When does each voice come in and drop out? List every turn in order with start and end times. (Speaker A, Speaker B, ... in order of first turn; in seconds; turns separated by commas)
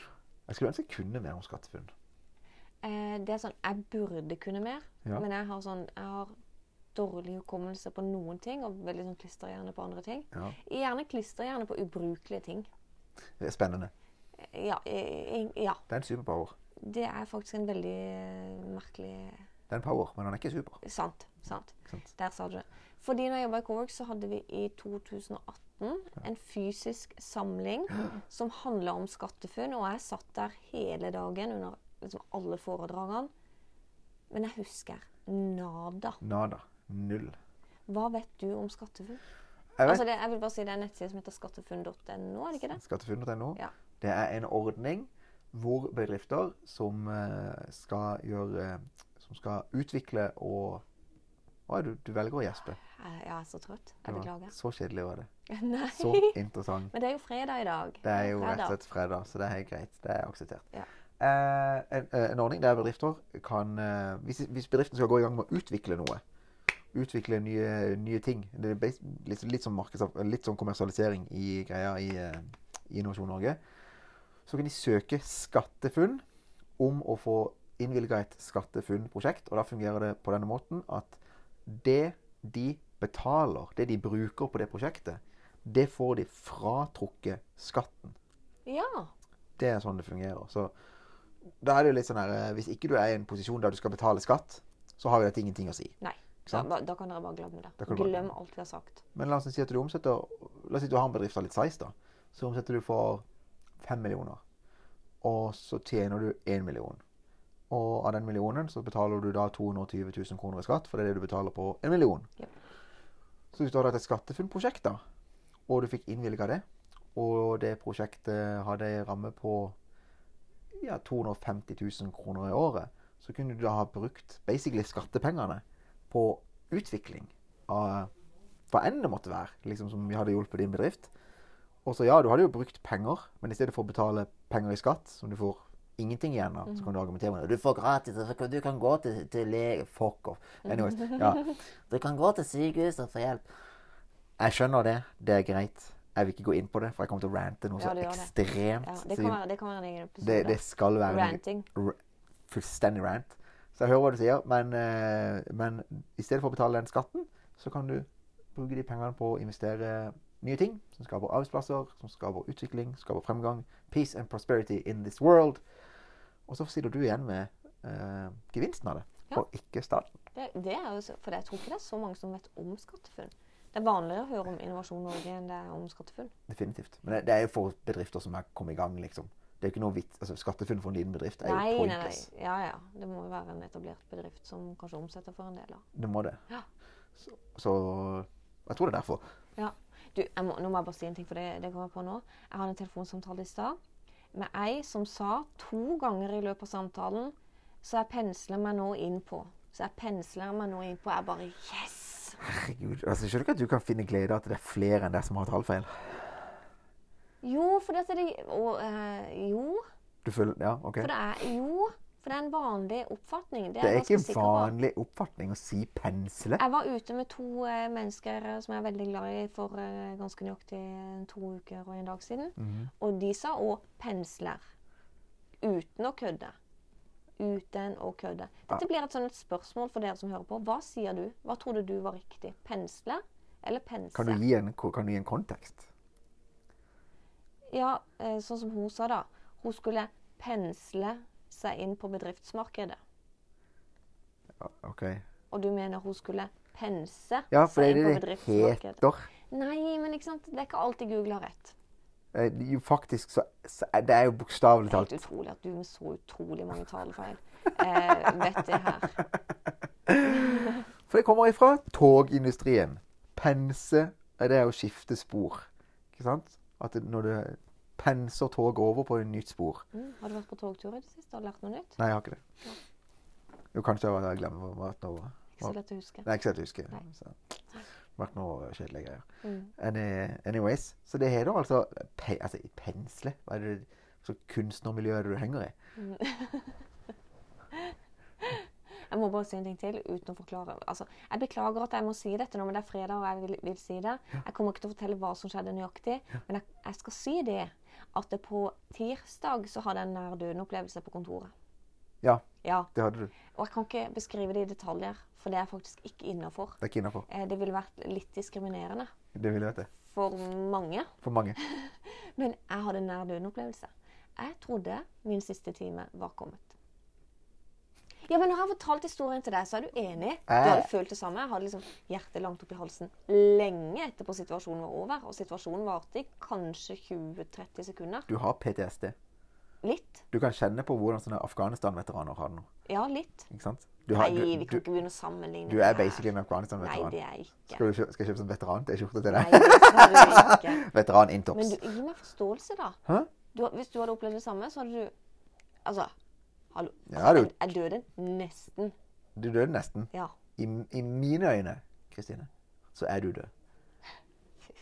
Speaker A: 0.5-1.9, Speaker B: 2.8-6.3, Speaker B: 6.9-12.7, Speaker A: 13.4-13.9, Speaker B: 14.4-15.8, Speaker A: 15.9-16.5, Speaker B: 16.8-19.4, Speaker A: 19.7-20.8, Speaker B: 20.8-33.3, Speaker B: 34.3-36.2, Speaker A: 36.2-37.4, Speaker B: 37.9-39.2, Speaker A: 39.8-40.0, Speaker B: 39.8-42.8, Speaker A: 42.7-50.8, Speaker A: 51.7-52.8, Speaker B: 52.8-54.5, Speaker A: 54.0-55.3, Speaker B: 55.5-56.4, Speaker A: 55.9-56.9, Speaker B: 56.9-58.8, Speaker A: 58.0-60.7, Speaker A: 61.2-66.2, Speaker A: 66.9-73.6, Speaker A: 74.5-76.2, Speaker A: 76.8-88.2, Speaker B: 88.7-89.1, Speaker A: 89.6-90.7, Speaker A: 91.6-95.9, Speaker B: 96.0-99.0, Speaker A: 97.8-98.3, Speaker A: 99.1-103.2, Speaker A: 103.8-104.4, Speaker A: 105.2-107.0, Speaker A: 107.7-112.3, Speaker A: 113.5-115.0, Speaker A: 115.7-116.6, Speaker A: 117.1-119.7, Speaker A: 120.8-128.1, Speaker A: 128.7-131.1, Speaker A: 131.8-143.4, Speaker B: 140.7-141.2, Speaker A: 144.4-149.4, Speaker B: 147.8-148.3, Speaker B: 148.8-151.7, Speaker A: 150.2-165.6, Speaker A: 166.5-170.1, Speaker B: 170.3-176.3, Speaker A: 176.5-182.2, Speaker B: 181.4-185.8, Speaker A: 185.9-186.4, Speaker A: 187.2-189.2, Speaker B: 189.6-193.8, Speaker B: 194.3-202.4, Speaker A: 202.4-206.6, Speaker B: 207.4-209.8, Speaker A: 210.2-211.1, Speaker B: 211.0-214.7, Speaker A: 213.8-216.6, Speaker B: 216.6-224.6, Speaker A: 222.6-222.9, Speaker B: 225.6-226.5, Speaker B: 227.4-234.4, Speaker A: 234.1-235.9, Speaker B: 237.7-243.0, Speaker A: 244.6-245.2, Speaker B: 245.5-251.7, Speaker A: 247.5-249.3, Speaker A: 252.3-255.2, Speaker B: 254.9-259.2, Speaker A: 260.1-269.8, Speaker B: 260.4-260.6, Speaker B: 269.9-272.0, Speaker A: 272.0-272.4, Speaker A: 273.7-277.4, Speaker B: 275.6-276.3, Speaker A: 278.2-279.2, Speaker B: 279.4-279.7, Speaker A: 279.8-285.7, Speaker B: 286.0-286.8, Speaker B: 287.7-301.5, Speaker A: 302.2-303.3, Speaker B: 302.6-302.9, Speaker B: 303.5-309.1, Speaker A: 306.8-307.2, Speaker A: 309.3-309.9, Speaker B: 310.0-316.7, Speaker A: 311.2-311.6, Speaker B: 318.2-328.3, Speaker A: 320.5-320.9, Speaker A: 328.3-329.1, Speaker B: 329.8-330.2, Speaker A: 330.3-332.7, Speaker B: 332.9-333.5, Speaker A: 333.5-334.9, Speaker B: 334.1-337.8, Speaker A: 335.7-337.1, Speaker A: 337.7-341.8, Speaker B: 339.3-340.8, Speaker B: 341.5-343.0, Speaker B: 343.5-345.1, Speaker B: 345.8-346.1, Speaker B: 346.7-348.9, Speaker A: 347.1-347.6, Speaker A: 349.4-353.5